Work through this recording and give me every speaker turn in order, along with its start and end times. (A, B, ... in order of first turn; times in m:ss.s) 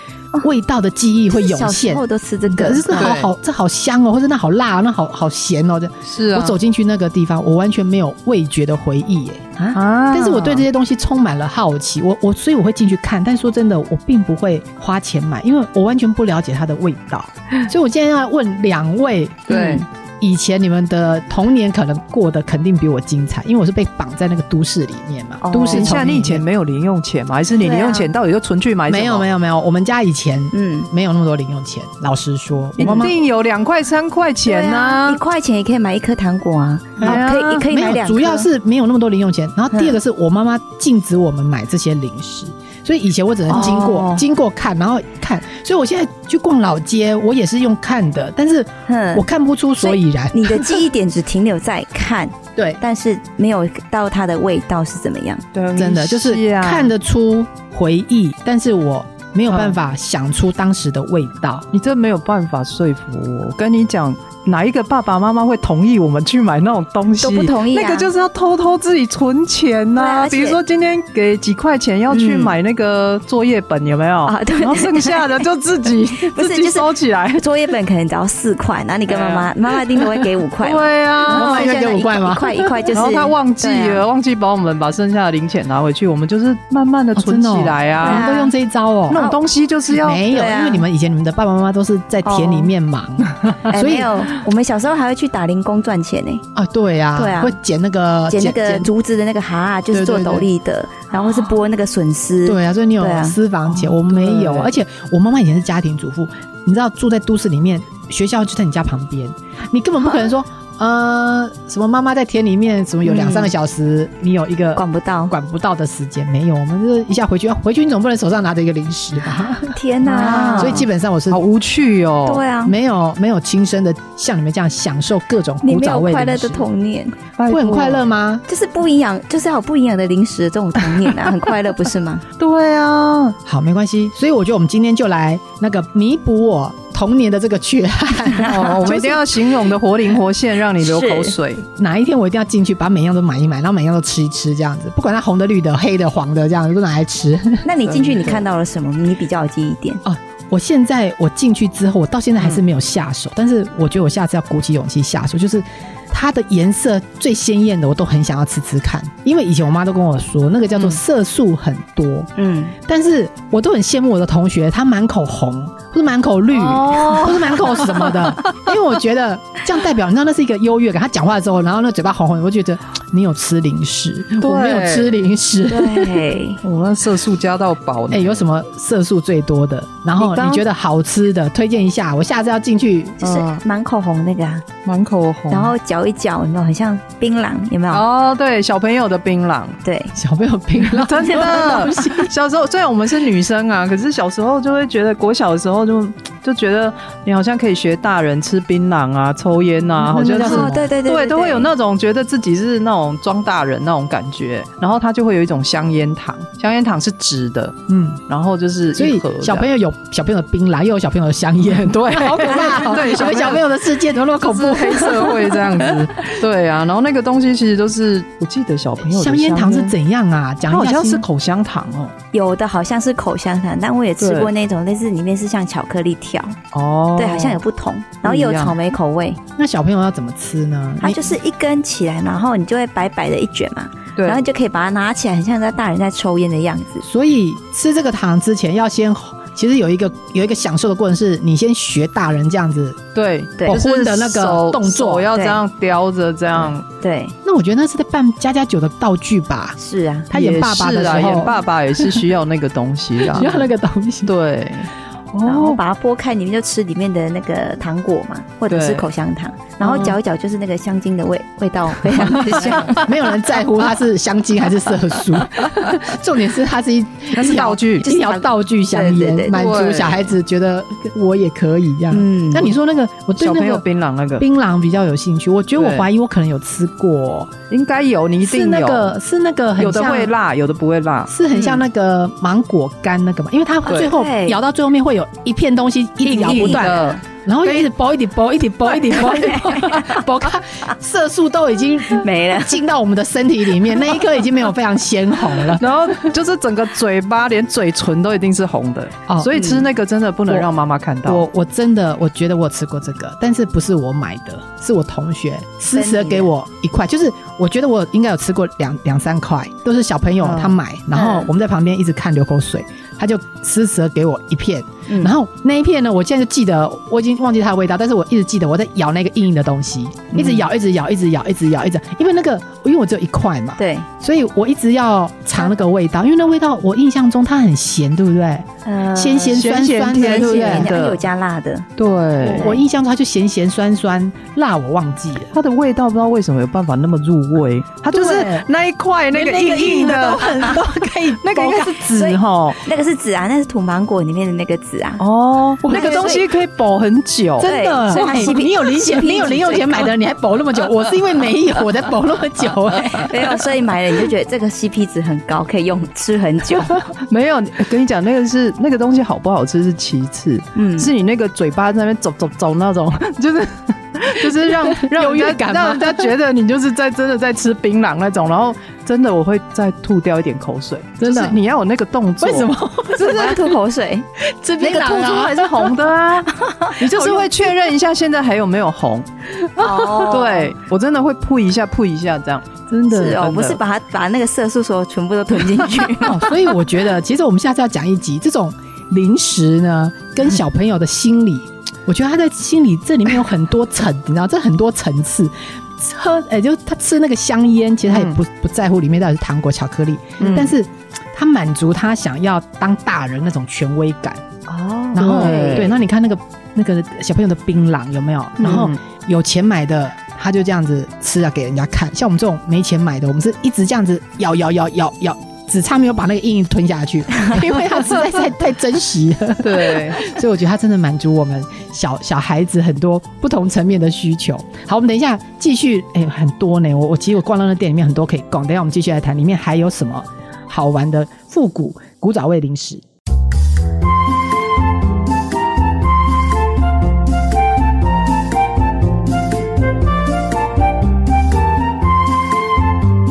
0:00.4-0:09.5 A
0:01.3-0:03.1 B
0:02.9-0:03.3 C
0:06.1-0:06.6 C
0:09.7-0:10.7 C
0:10.1-0:26.4 A
0:19.5-0:19.8 C
0:19.5-0:19.8 B
0:25.4-0:26.0 B
0:25.5-0:29.2 C
0:27.6-0:28.1 B
0:28.9-0:33.1 A
0:30.5-0:30.9 B
0:32.8-0:35.2 C
0:32.8-0:33.1 B
0:34.4-0:38.5 B
0:37.0-0:50.8 A
0:37.0-0:37.7 C
0:39.7-0:40.0 B
0:43.5-0:44.2 B
0:48.9-0:49.2 B
0:49.8-0:55.4 B
0:55.5-0:56.9 C
0:55.8-1:01.7 A
0:59.5-0:59.8 C
1:01.7-1:17.4 C
1:07.2-1:08.1 B
1:10.0-1:10.6 B
1:12.1-1:12.5 B
1:14.2-1:15.4 B
1:16.2-1:24.0 B
1:19.1-1:21.8 C
1:21.2-1:22.8 A
1:22.9-1:28.3 C
1:27.2-1:29.2 A
1:28.0-1:28.5 B
1:29.1-1:30.2 C
1:29.1-1:29.4 B
1:30.0-1:34.1 A
1:30.3-1:30.8 B
1:32.2-1:32.7 B
1:33.7-1:36.4 B
1:36.5-1:38.9 A
1:37.2-1:37.6 B
1:38.3-1:43.4 B
1:39.9-1:40.5 A
1:42.4-2:01.4 A
1:43.7-1:44.7 C
1:53.0-1:53.5 B
1:54.8-1:55.3 B
1:59.6-2:00.8 B
2:00.1-2:02.4 C
2:02.2-2:02.7 B
2:02.6-2:06.6 A
2:05.6-2:07.2 B
2:07.4-2:08.1 C
2:07.5-2:08.4 A
2:08.5-2:12.2 B
2:12.4-2:13.4 C
2:13.4-2:19.3 A
2:18.4-2:21.6 C
2:20.8-2:21.3 B
2:21.6-2:27.6 A
2:27.6-2:30.0 B
2:27.8-2:28.4 C
2:30.0-2:42.3 A
2:42.4-2:42.7 B
2:42.8-2:56.2 A
2:46.5-2:47.6 B
2:47.8-2:48.4 C
2:54.4-2:55.2 C
2:55.7-2:56.6 B
2:56.6-2:58.4 C
2:58.1-3:03.2 A
3:00.2-3:00.6 C
3:03.2-3:04.6 B
3:03.2-3:03.6 C
3:04.8-3:05.7 C
3:05.5-3:08.0 B
3:07.9-3:09.8 C
3:09.8-3:10.1 B
3:10.1-3:12.3 A
3:10.8-3:29.7 C
3:11.5-3:11.8 B
3:20.0-3:20.8 A
3:20.3-3:21.7 B
3:27.9-3:28.2 A
3:28.9-3:36.0 A
3:31.8-3:33.8 C
3:34.3-3:39.9 C
3:39.0-3:41.2 A
3:40.7-3:42.1 C
3:42.3-3:46.6 B
3:44.2-3:44.5 C
3:46.7-3:47.6 C
3:47.2-3:49.4 B
3:48.2-3:48.8 C
3:49.6-3:51.3 A
3:51.0-3:57.0 B
3:54.2-3:54.4 C
3:57.0-4:03.0 A
4:03.1-4:06.8 C
4:03.6-4:05.3 A
4:05.3-4:05.6 B
4:06.9-4:07.3 B
4:07.4-4:09.8 A
4:09.8-4:10.3 B
4:10.3-4:12.2 A
4:10.3-4:13.6 C
4:13.3-4:14.3 A
4:14.2-4:14.9 C
4:15.4-4:15.8 C
4:15.4-4:23.1 B
4:18.7-4:19.0 C
4:19.8-4:20.2 C
4:22.0-4:23.3 C
4:22.5-4:33.8 A
4:27.3-4:28.0 C
4:28.0-4:29.6 B
4:29.5-4:30.3 C
4:32.1-4:32.7 B
4:33.4-4:34.4 C
4:34.4-4:37.5 A
4:35.8-4:36.1 C
4:37.7-4:39.1 C
4:38.4-4:40.3 A
4:39.8-4:41.8 C
4:41.3-4:55.8 A
4:43.8-4:44.1 C
4:43.8-4:44.6 B
4:46.3-4:47.9 C
4:46.3-4:47.2 B
4:48.9-4:50.2 B
4:52.1-4:52.8 B
4:55.6-5:01.4 C
4:59.3-4:59.7 A
4:59.6-4:59.8 B
5:01.2-5:30.9 A
5:05.9-5:06.5 B
5:10.4-5:10.8 C
5:11.1-5:11.5 B
5:15.1-5:15.3 B
5:20.3-5:20.6 B
5:23.8-5:24.1 B
5:28.8-5:31.8 B
5:29.5-5:31.2 C
5:32.0-5:32.7 C
5:32.4-5:35.5 A
5:32.4-5:32.8 B
5:35.5-5:42.8 C
5:38.1-5:38.6 A
5:39.3-5:42.4 A
5:42.1-5:45.2 B
5:45.2-5:48.4 C
5:45.8-5:46.4 A
5:45.9-5:46.4 B
5:47.6-5:53.3 A
5:47.6-5:50.1 B
5:53.3-5:57.0 B
5:57.2-6:13.6 C
6:00.7-6:01.1 B
6:04.9-6:06.3 A
6:11.2-6:11.6 A
6:12.4-6:13.5 A
6:13.2-6:14.2 B
6:14.4-6:15.9 A
6:14.8-6:23.8 C
6:16.5-6:17.0 B
6:17.1-6:17.5 A
6:19.8-6:20.7 B
6:22.9-6:23.4 A
6:23.1-6:26.6 B
6:26.2-6:44.4 A
6:38.1-6:38.4 C
6:40.4-6:40.7 C
6:44.7-6:45.9 B
6:45.1-7:13.0 A
6:45.2-6:46.0 C
6:48.6-6:49.0 C
6:59.6-7:00.2 C